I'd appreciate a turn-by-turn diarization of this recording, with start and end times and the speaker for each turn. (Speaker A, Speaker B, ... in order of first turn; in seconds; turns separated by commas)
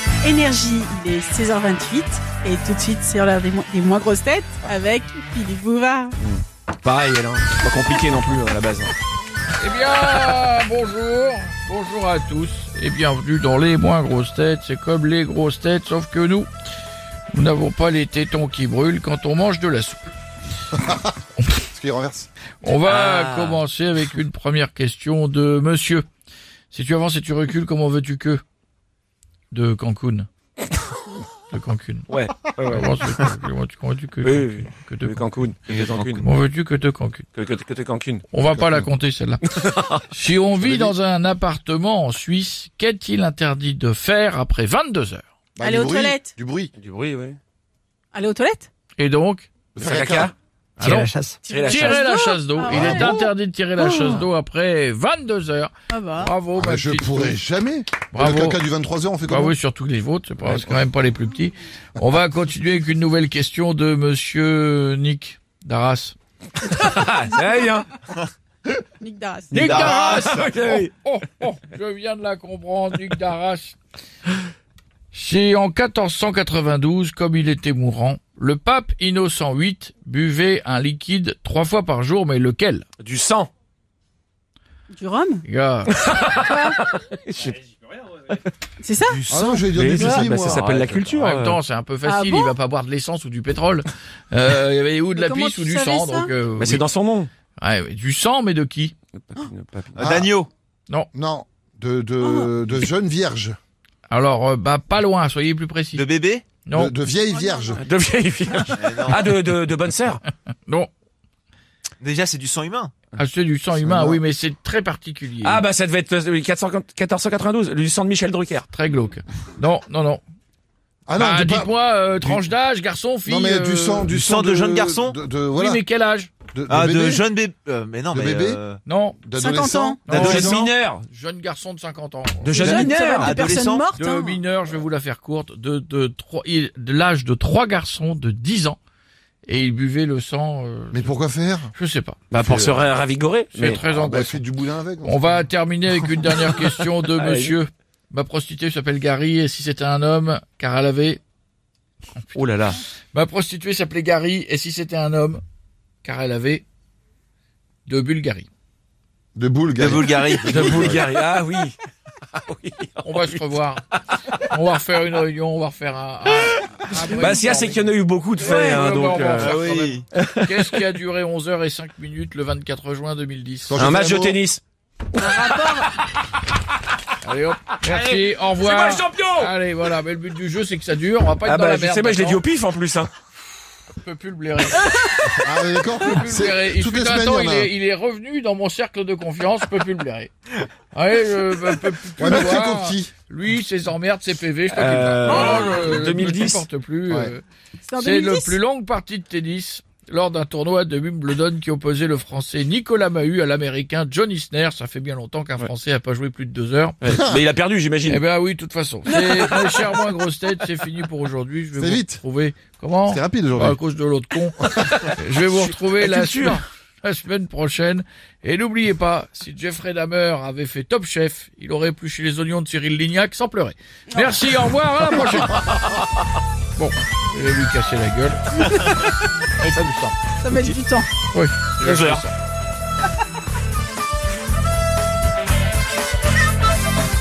Speaker A: 0.2-6.2, Speaker B: 6.2-8.9, Speaker C: 9.6-16.5, Speaker C: 17.3-20.1, Speaker D: 20.8-21.1, Speaker D: 21.7-22.3, Speaker C: 22.6-26.1, Speaker B: 22.8-23.6, Speaker C: 26.7-28.4, Speaker C: 29.5-30.3, Speaker C: 31.5-35.2, Speaker B: 32.1-33.1, Speaker B: 34.2-36.3, Speaker C: 36.0-37.3, Speaker B: 37.3-38.2, Speaker C: 38.3-39.4, Speaker D: 38.5-38.8, Speaker B: 39.5-40.0, Speaker C: 40.1-45.2, Speaker D: 40.6-40.9, Speaker D: 45.6-46.7, Speaker A: 45.6-46.3, Speaker B: 46.8-47.4, Speaker A: 48.1-48.7, Speaker C: 49.0-49.5, Speaker D: 49.7-50.3, Speaker B: 49.8-52.0, Speaker C: 50.8-51.1, Speaker E: 50.8-51.4, Speaker A: 51.4-53.2, Speaker C: 51.6-57.4, Speaker D: 52.6-53.1, Speaker A: 53.8-54.2, Speaker A: 55.9-56.3, Speaker D: 56.5-59.5, Speaker C: 58.1-58.6, Speaker C: 59.2-66.2, Speaker D: 60.5-60.7, Speaker B: 66.6-67.9, Speaker A: 69.0-69.8, Speaker B: 69.5-70.9, Speaker C: 69.5-73.8, Speaker E: 69.6-70.4, Speaker C: 75.1-82.9, Speaker B: 83.0-83.5, Speaker A: 84.9-85.4, Speaker C: 85.4-85.9, Speaker B: 85.9-87.6, Speaker A: 86.5-86.8, Speaker B: 88.1-88.4, Speaker A: 88.8-89.2, Speaker E: 89.1-89.7, Speaker D: 89.3-90.7, Speaker B: 89.7-91.6, Speaker E: 90.5-91.0, Speaker C: 91.0-96.8, Speaker A: 92.0-92.5, Speaker A: 95.1-96.3, Speaker B: 96.6-97.3, Speaker C: 97.6-98.9, Speaker B: 99.2-100.0, Speaker D: 100.0-100.3, Speaker E: 100.0-100.5, Speaker D: 101.1-103.5, Speaker A: 102.2-102.5, Speaker C: 104.1-106.0, Speaker E: 105.9-106.4, Speaker C: 106.6-106.9, Speaker D: 106.7-107.8, Speaker A: 107.3-107.8, Speaker B: 107.8-110.2, Speaker E: 108.7-109.3, Speaker E: 112.0-112.9, Speaker C: 113.2-115.6, Speaker D: 113.7-114.2, Speaker B: 115.4-118.7, Speaker C: 118.7-120.2, Speaker D: 121.1-122.4, Speaker C: 121.2-124.1, Speaker D: 123.2-125.8, Speaker E: 124.0-125.2, Speaker C: 125.5-126.3, Speaker D: 126.5-127.2, Speaker E: 126.7-128.8, Speaker D: 128.1-128.6, Speaker C: 128.8-129.2, Speaker D: 129.2-130.6, Speaker A: 129.3-130.0, Speaker E: 130.1-130.7, Speaker C: 130.1-132.9, Speaker B: 130.1-131.0, Speaker B: 132.4-133.4, Speaker A: 132.5-134.4, Speaker E: 133.1-133.9, Speaker C: 133.9-138.8, Speaker C: 139.4-141.1, Speaker D: 140.9-141.7, Speaker C: 141.7-142.2, Speaker B: 142.3-143.8, Speaker D: 142.4-142.8, Speaker C: 143.6-144.4, Speaker D: 143.9-145.4, Speaker C: 145.0-151.2, Speaker B: 147.1-147.6, Speaker E: 152.3-152.7, Speaker C: 153.1-155.4, Speaker C: 156.0-156.6, Speaker C: 157.8-158.5, Speaker D: 159.3-161.0, Speaker E: 159.8-161.0, Speaker B: 160.4-161.7, Speaker B: 162.3-163.4, Speaker C: 163.0-163.8, Speaker C: 164.4-173.8, Speaker B: 167.0-169.6, Speaker E: 169.4-170.0, Speaker B: 170.1-170.8, Speaker D: 173.7-174.4, Speaker B: 173.8-174.6, Speaker A: 175.2-175.9, Speaker B: 175.2-175.8, Speaker C: 177.2-182.4, Speaker B: 177.9-179.5, Speaker B: 181.4-183.1, Speaker C: 183.9-184.9, Speaker D: 185.2-187.7, Speaker C: 186.0-190.3, Speaker C: 190.9-197.4, Speaker D: 192.2-193.1, Speaker B: 194.7-196.7, Speaker A: 195.3-195.8, Speaker D: 197.1-197.3, Speaker A: 197.8-198.6, Speaker C: 197.9-207.0, Speaker B: 207.0-208.2, Speaker C: 208.0-225.7, Speaker B: 209.1-209.8, Speaker D: 211.8-212.2, Speaker D: 213.1-213.8, Speaker B: 214.6-216.6, Speaker B: 225.4-226.0, Speaker C: 226.8-228.9, Speaker C: 229.6-230.2, Speaker A: 230.4-231.1, Speaker C: 231.3-232.3, Speaker B: 231.8-232.2